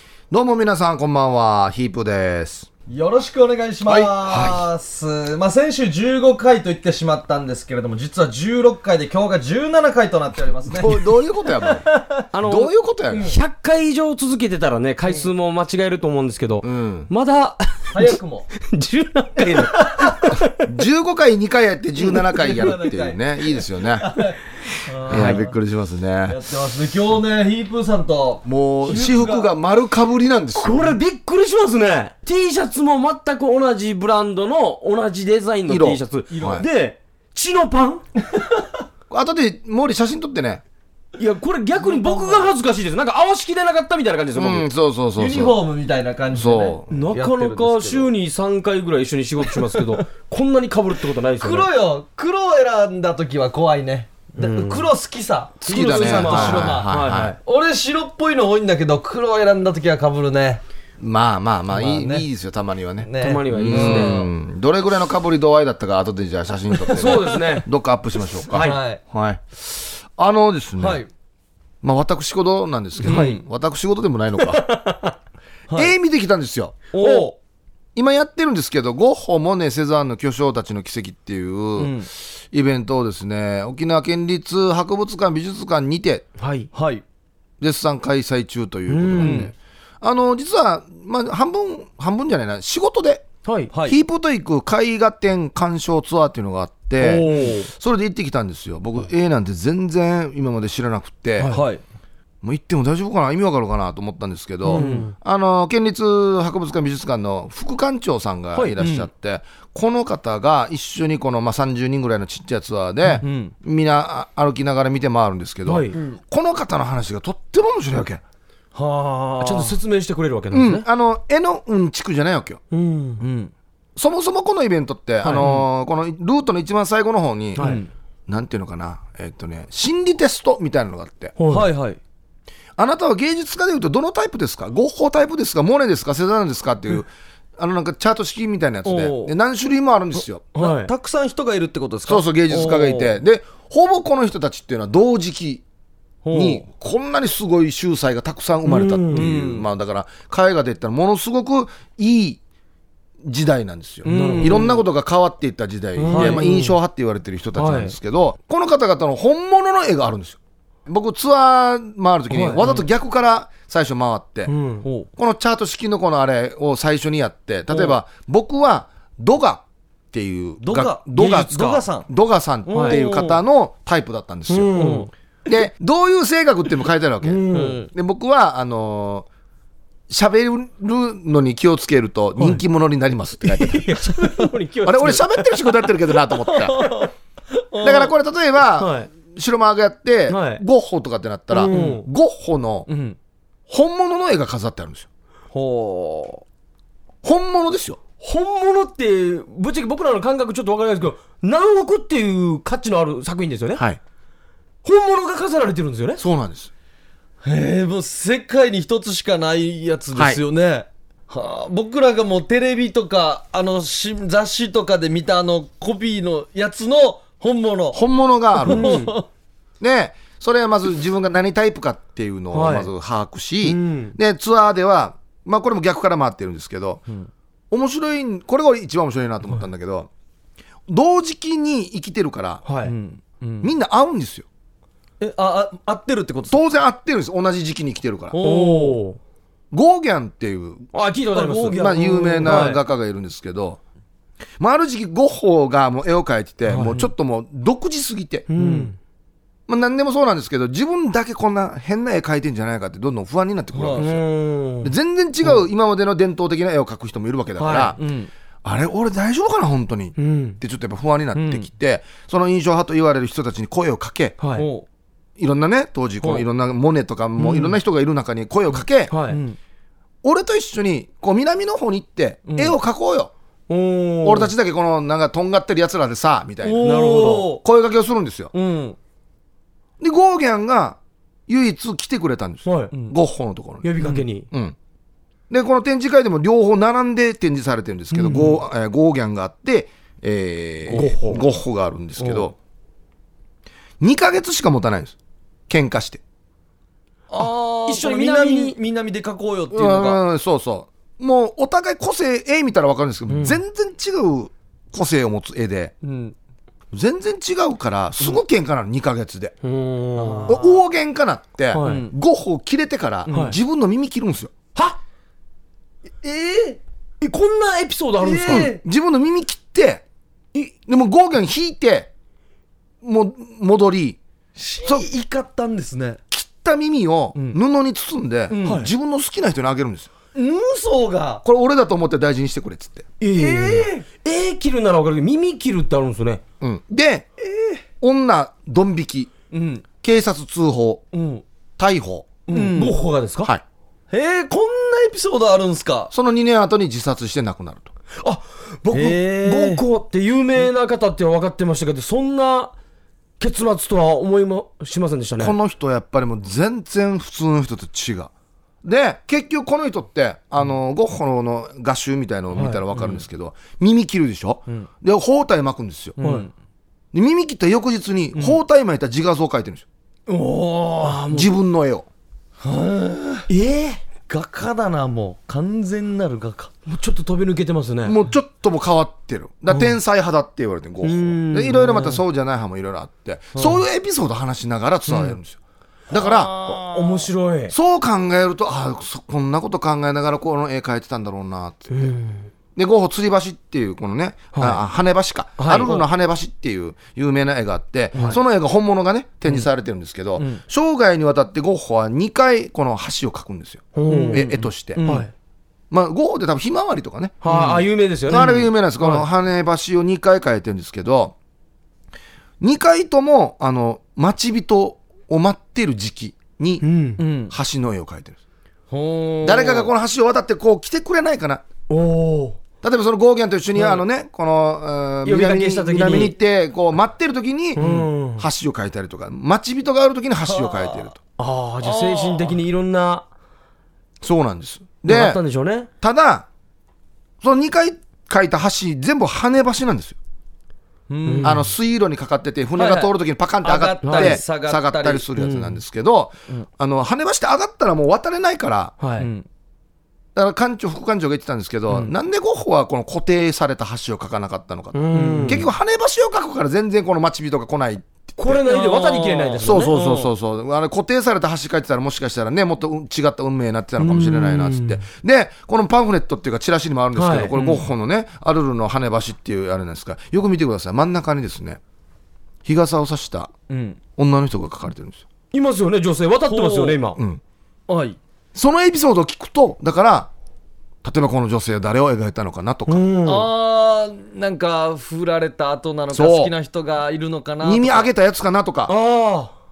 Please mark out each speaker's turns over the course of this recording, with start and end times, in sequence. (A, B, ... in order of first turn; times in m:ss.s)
0:00.3-0:02.7 A
0:02.9-0:12.2 B
0:03.9-0:04.7 A
0:10.7-0:11.9 A
0:12.3-0:20.6 C
0:12.4-0:13.3 A
0:16.6-0:17.1 A
0:17.9-0:18.5 B
0:19.5-0:20.1 B
0:20.6-0:24.1 A
0:22.0-0:25.5 B
0:25.1-0:25.4 C
0:25.1-0:26.4 A
0:26.2-0:29.5 B
0:28.4-0:31.0 A
0:30.6-0:38.0 C
0:35.7-0:36.6 A
0:36.3-0:36.7 B
0:38.3-0:38.7 B
0:39.1-0:40.6 A
0:41.2-0:44.6 C
0:41.8-0:42.5 B
0:44.3-0:45.6 A
0:45.2-0:48.1 B
0:46.3-0:46.9 A
0:46.9-0:51.7 C
0:49.5-0:50.0 B
0:51.4-1:00.6 B
0:54.4-0:54.9 C
0:55.6-0:57.4 A
0:55.7-0:57.4 C
1:01.0-1:11.0 A
1:01.7-1:02.3 B
1:03.0-1:04.3 B
1:03.2-1:04.2 C
1:06.8-1:07.4 B
1:06.9-1:07.7 C
1:08.5-1:08.8 C
1:08.5-1:09.0 B
1:10.8-1:11.1 B
1:11.8-1:14.6 A
1:13.0-1:13.3 C
1:13.0-1:13.4 B
1:14.4-1:15.1 C
1:15.7-1:15.9 B
1:15.7-1:16.8 A
1:16.9-1:17.3 B
1:17.0-1:17.3 C
1:17.9-1:26.2 A
1:21.8-1:22.1 B
1:26.4-1:26.7 C
1:26.7-1:27.0 B
1:27.6-1:33.3 A
1:28.9-1:29.5 C
1:29.2-1:29.5 B
1:33.4-1:33.7 C
1:33.7-1:34.0 B
1:33.8-1:41.5 A
1:37.0-1:37.7 C
1:41.4-1:41.6 C
1:41.4-1:41.8 B
1:42.4-1:58.2 A
1:44.7-1:45.1 B
1:44.7-1:45.1 C
1:48.8-1:49.1 B
1:53.2-1:53.5 B
1:55.6-1:55.9 C
1:55.9-1:56.2 B
1:58.7-1:59.8 B
1:59.4-2:00.8 C
2:00.5-2:02.6 A
2:02.7-2:03.2 C
2:03.2-2:03.5 B
2:04.0-2:07.7 A
2:05.2-2:05.6 C
2:07.6-2:07.8 C
2:07.6-2:07.9 B
2:08.3-2:11.4 A
2:11.4-2:11.7 C
2:11.5-2:12.0 B
2:12.8-2:20.4 A
2:18.8-2:19.3 B
2:20.5-2:20.9 C
2:20.6-2:23.1 B
2:22.0-2:25.6 A
2:26.2-2:26.6 B
2:26.3-2:32.4 A
2:28.6-2:29.2 C
2:29.1-2:29.7 B
2:33.2-2:44.5 A
2:34.0-2:34.8 B
2:34.1-2:34.8 C
2:36.0-2:36.8 C
2:36.0-2:36.4 B
2:37.6-2:37.9 C
2:42.3-2:42.6 B
2:42.3-2:42.8 C
2:44.5-2:44.8 C
2:45.2-2:54.8 A
2:50.6-2:52.1 B
2:52.7-2:53.4 B
2:52.7-2:53.0 C
2:54.5-2:55.1 C
2:54.8-2:55.1 B
2:55.4-2:59.3 A
2:57.4-2:57.8 C
2:57.5-2:57.8 B
3:00.1-3:04.1 A
3:02.4-3:02.6 C
3:03.4-3:05.8 C
3:04.8-3:06.9 A
3:06.4-3:08.1 B
3:07.8-3:12.9 A
3:08.8-3:09.1 C
3:10.3-3:10.6 C
3:11.5-3:12.0 C
3:11.6-3:12.0 B
3:12.9-3:13.2 B
3:13.7-3:15.1 A
3:15.5-3:16.4 B
3:17.2-3:18.0 A
3:18.2-3:23.8 C
3:24.8-3:26.2 C
3:26.2-3:26.7 A
3:27.4-3:38.0 B
3:30.1-3:30.4 A
3:37.9-3:39.0 A
3:38.6-3:39.2 B
3:38.6-3:39.2 C
3:39.8-3:47.0 A
3:42.5-3:42.9 C
3:43.6-3:44.1 C
3:47.7-3:50.1 A
3:50.9-3:52.6 A
3:52.6-3:52.9 C
3:52.8-3:53.7 B
3:53.6-3:54.4 A
3:55.2-3:56.6 B
3:56.5-3:58.4 A
3:58.3-3:59.0 B
3:58.4-3:59.2 C
3:59.7-4:00.9 A
4:00.9-4:02.8 C
4:01.3-4:02.8 B
4:01.5-4:03.8 A
4:04.6-4:08.5 A
4:06.7-4:07.1 C
4:08.5-4:09.0 C
4:08.5-4:08.9 B
4:09.7-4:14.2 A
4:13.7-4:14.2 B
4:13.9-4:14.9 C
4:14.8-4:18.0 A
4:17.6-4:17.9 C
4:17.9-4:18.3 B
4:18.6-4:24.3 A
4:20.2-4:20.6 C
4:21.3-4:21.7 B
4:24.4-4:24.7 C
4:24.5-4:24.8 B
4:25.4-4:29.1 A
4:27.4-4:27.7 B
4:29.1-4:29.4 C
4:29.3-4:29.6 B
4:30.2-4:33.3 A
4:32.5-4:32.7 B
4:33.7-4:34.5 C
4:34.2-4:38.5 A
4:36.6-4:37.6 B
4:36.8-4:37.5 C
4:38.5-4:39.0 B
4:40.0-4:43.9 A
4:42.6-4:42.9 C
4:43.8-4:44.5 C
4:44.0-4:44.2 B
4:44.5-4:44.8 A
4:45.5-4:52.5 A
4:48.1-4:48.6 C
4:50.9-4:51.2 B
4:50.9-4:51.4 C
4:54.0-4:55.2 A
4:55.7-4:56.2 A
4:57.3-5:00.2 B
4:57.4-4:58.8 C
4:59.7-5:05.9 A
5:03.3-5:03.6 C
5:06.0-5:06.3 B
5:06.9-5:09.5 A
5:09.6-5:10.6 C
5:10.2-5:10.8 B
5:10.5-5:14.5 A
5:11.7-5:12.0 C
5:11.8-5:12.1 B
5:13.3-5:13.6 B
5:13.3-5:13.6 C
5:16.2-5:16.8 B
5:17.2-5:18.7 C
5:18.2-5:18.8 B
5:18.4-5:20.0 A
5:20.5-5:22.1 A
5:23.0-5:24.2 A
5:24.6-5:26.2 B
5:26.3-5:30.1 A
5:28.5-5:28.9 B
5:30.3-5:31.4 B
5:31.4-5:33.1 A
5:33.2-5:34.0 B
5:33.2-5:36.4 C
5:36.6-5:37.3 A
5:37.4-5:37.8 B
5:38.0-5:39.3 A
5:39.5-5:39.8 B
5:40.0-5:41.0 A
5:41.1-5:41.4 B
5:41.8-5:42.3 A
5:42.5-5:43.0 B
5:42.5-5:43.5 C
5:44.1-5:46.1 B
5:46.1-5:47.9 A
5:48.2-5:52.7 C
5:48.9-5:49.8 B
5:53.4-5:55.6 C
5:55.4-5:58.3 A
5:58.8-6:06.2 A
6:02.5-6:02.8 C
6:06.2-6:06.5 B
6:06.2-6:06.5 C
6:07.1-6:09.8 A
6:10.3-6:11.2 B
6:11.0-6:11.5 C
6:11.3-6:12.1 A
6:12.6-6:16.7 B
6:16.9-6:18.2 C
6:18.0-6:26.6 A
6:21.0-6:22.2 C
6:23.5-6:23.8 B
6:26.2-6:27.3 B
6:26.6-6:27.7 C
6:27.7-6:32.1 A
6:31.9-6:32.5 C
6:32.8-6:45.0 A
6:34.5-6:34.8 C
6:35.6-6:36.1 C
6:43.9-6:44.5 C
6:44.1-6:45.3 B
6:45.0-6:45.3 C
6:45.9-6:47.4 A
6:47.4-6:49.2 C
6:47.4-6:48.6 B
6:48.3-6:51.3 A
6:52.6-6:56.8 A
6:56.8-6:57.2 C
6:57.2-6:57.5 B
6:57.5-6:58.4 A
6:58.9-6:59.9 B
6:59.4-7:01.6 A
7:01.9-7:02.6 C
7:02.8-7:07.8 A
7:05.2-7:06.4 C
7:07.8-7:08.4 C
7:07.8-7:08.1 B
7:08.4-7:11.1 A
7:10.5-7:11.1 B
7:11.4-7:13.2 C
7:11.8-7:12.6 B
7:14.2-7:15.4 A
7:15.1-7:15.9 C
7:16.0-7:16.4 A
7:17.4-7:20.2 A
7:21.1-7:21.6 B
7:21.2-7:21.7 C
7:21.4-7:28.9 A
7:22.8-7:25.2 B
7:24.0-7:24.4 C
7:25.4-7:25.8 C
7:29.0-7:29.3 C
7:29.2-7:29.4 B
7:30.3-7:38.6 A
7:34.9-7:35.7 C
7:35.1-7:35.7 B
7:38.4-7:39.9 C
7:38.6-7:40.3 B
7:39.6-7:51.8 A
7:44.0-7:45.0 C
7:47.1-7:47.8 C
7:47.6-7:47.8 B
7:52.6-7:53.5 A
7:53.7-7:54.0 B
7:54.2-7:55.2 A
7:55.5-7:57.2 C
7:56.5-7:57.0 B
7:57.2-7:57.4 A
7:57.9-7:58.2 B
7:58.5-8:00.3 A
8:01.0-8:03.1 A
8:02.9-8:03.5 C
8:03.2-8:08.1 B
8:06.1-8:06.5 A
8:07.6-8:08.9 A
8:08.9-8:09.5 C